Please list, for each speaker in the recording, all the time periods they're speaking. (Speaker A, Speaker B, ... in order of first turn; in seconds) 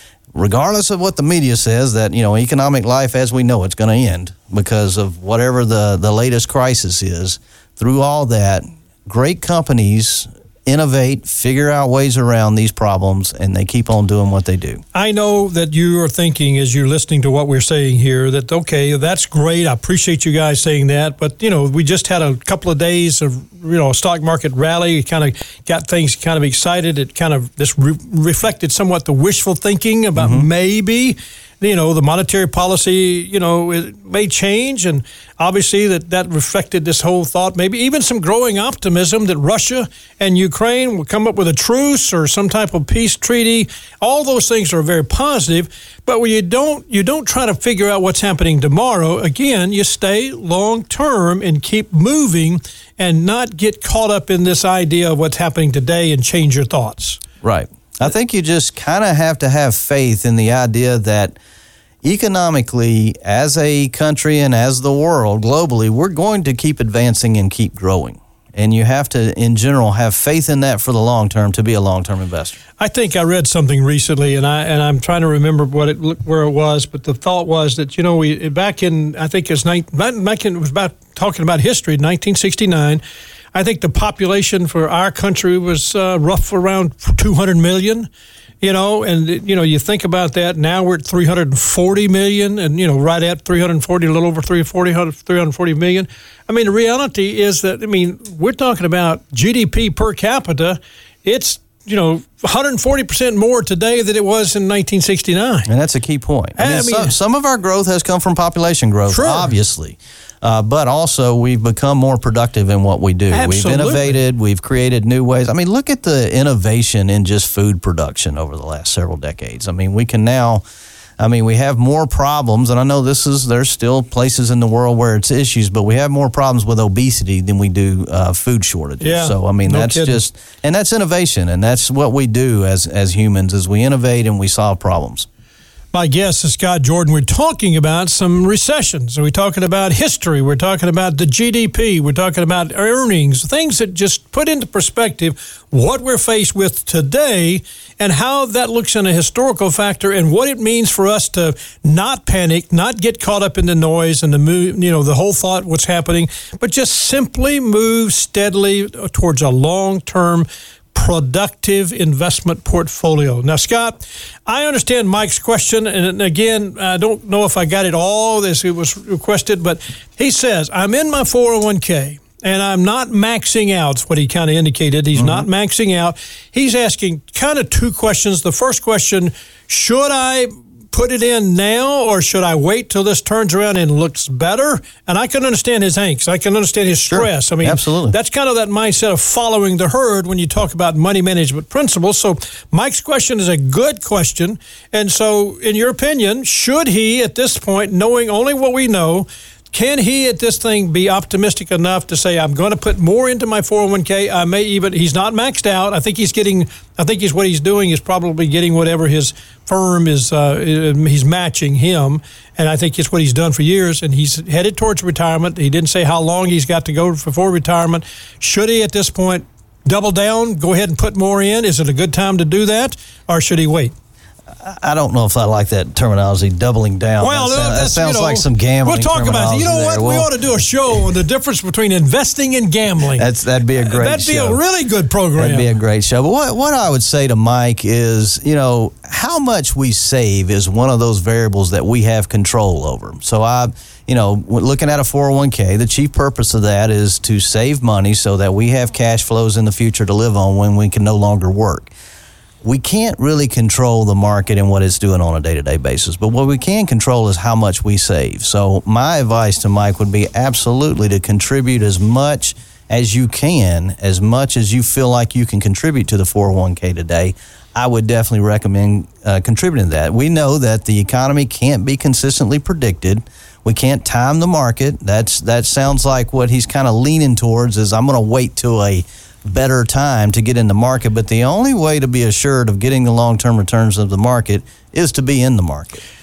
Speaker A: 0.3-14.8, 30.1-30.5, 57.4-61.4, 62.0-72.6, 105.7-120.6, 121.2-135.3, 175.1-175.5, 187.1-188.2, 224.6-230.5, 233.2-234.6, 235.4-251.9, 252.6-286.0
Speaker B: 14.9-57.2, 72.8-83.0, 83.5-88.1, 88.6-105.7, 106.6-107.2, 109.1-109.5, 113.3-114.2, 129.0-130.2, 135.9-223.9, 227.2-233.3, 233.8-235.7